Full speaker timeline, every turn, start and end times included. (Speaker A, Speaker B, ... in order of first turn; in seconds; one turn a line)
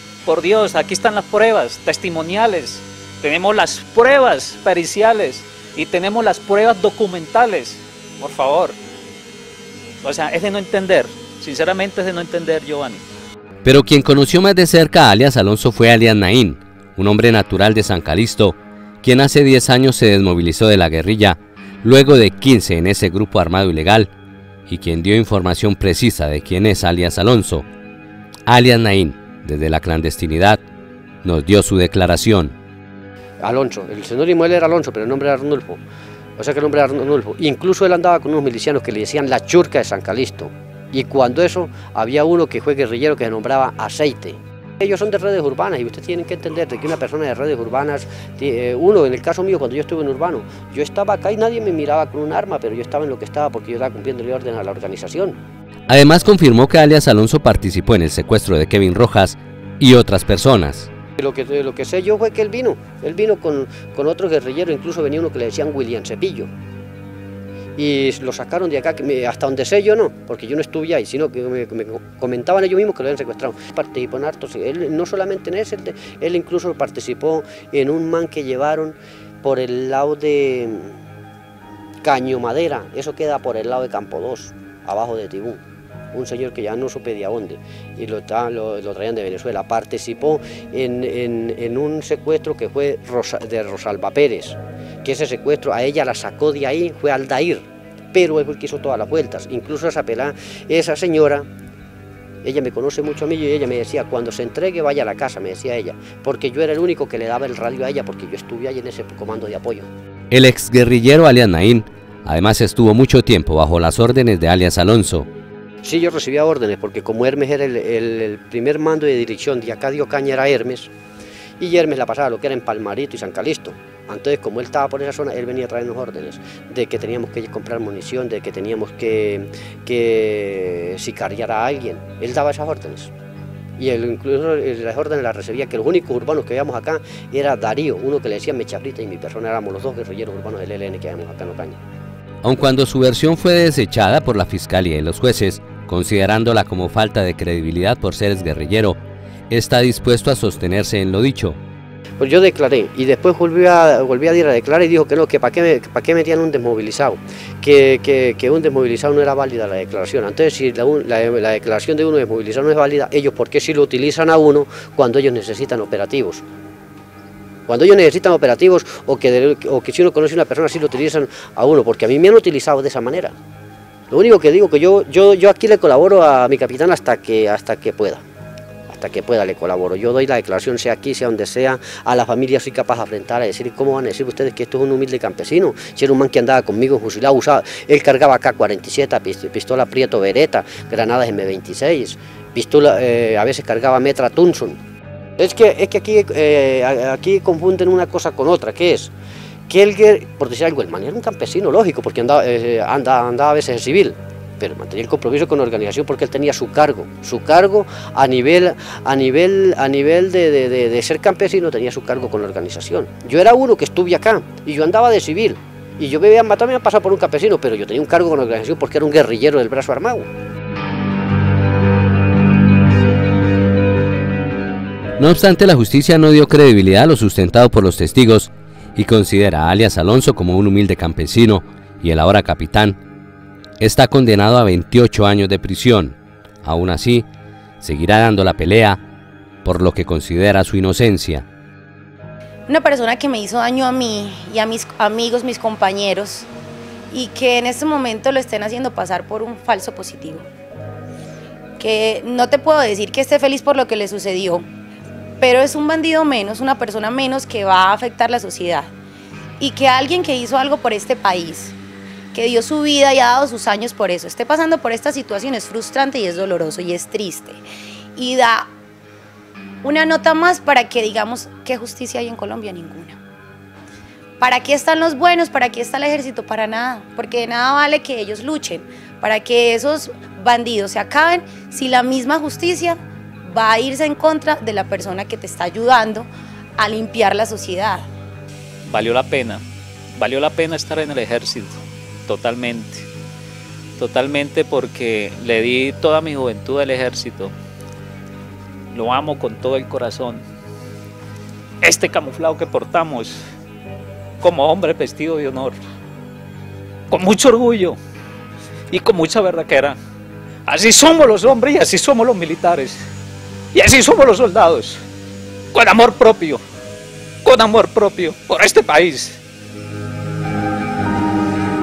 Speaker A: 0.3-8.8
Speaker A: 10.0-13.0
Speaker B: 13.6-24.1
Speaker B: 24.7-27.7
Speaker B: 28.5-30.6
Speaker B: 31.2-32.5
Speaker C: 33.4-35.8
Speaker C: 36.4-55.4
Speaker B: 55.9-60.9
Speaker C: 61.2-66.5
Speaker C: 67.8-80.9
Speaker C: 82.0-85.6
Speaker C: 86.1-101.5
Speaker C: 102.4-109.9
Speaker B: 110.3-115.3
Speaker C: 115.8-120.9
Speaker C: 121.6-133.1
Speaker C: 133.8-141.8
Speaker B: 142.4-149.0
Speaker B: 149.5-151.6
Speaker C: 152.2-166.4
Speaker C: 167.7-173.3
Speaker C: 174.1-178.2
Speaker C: 178.9-194.8
Speaker C: 195.4-199.1
Speaker C: 199.7-220.3
Speaker B: 225.2-233.0
Speaker B: 233.8-237.3
Speaker B: 237.8-239.0
Speaker B: 239.6-241.4
Speaker D: 242.7-246.5
Speaker D: 247.1-250.5
Speaker D: 251.8-254.7
Speaker D: 255.4-258.9
Speaker D: 259.6-261.8
Speaker D: 262.3-267.6
Speaker D: 268.2-268.7
Speaker D: 269.8-273.2
Speaker D: 274.4-288.1
Speaker A: 288.9-289.6
Speaker A: 290.2-293.1
Speaker A: 294.0-297.5
Speaker A: 298.9-300.4
Speaker A: 301.8-303.4
Speaker A: 304.4-305.8
Speaker A: 307.1-308.0
Speaker A: 308.9-310.0
Speaker A: 310.7-313.0
Speaker A: 313.7-315.0
Speaker A: 315.7-316.6
Speaker A: 317.4-319.4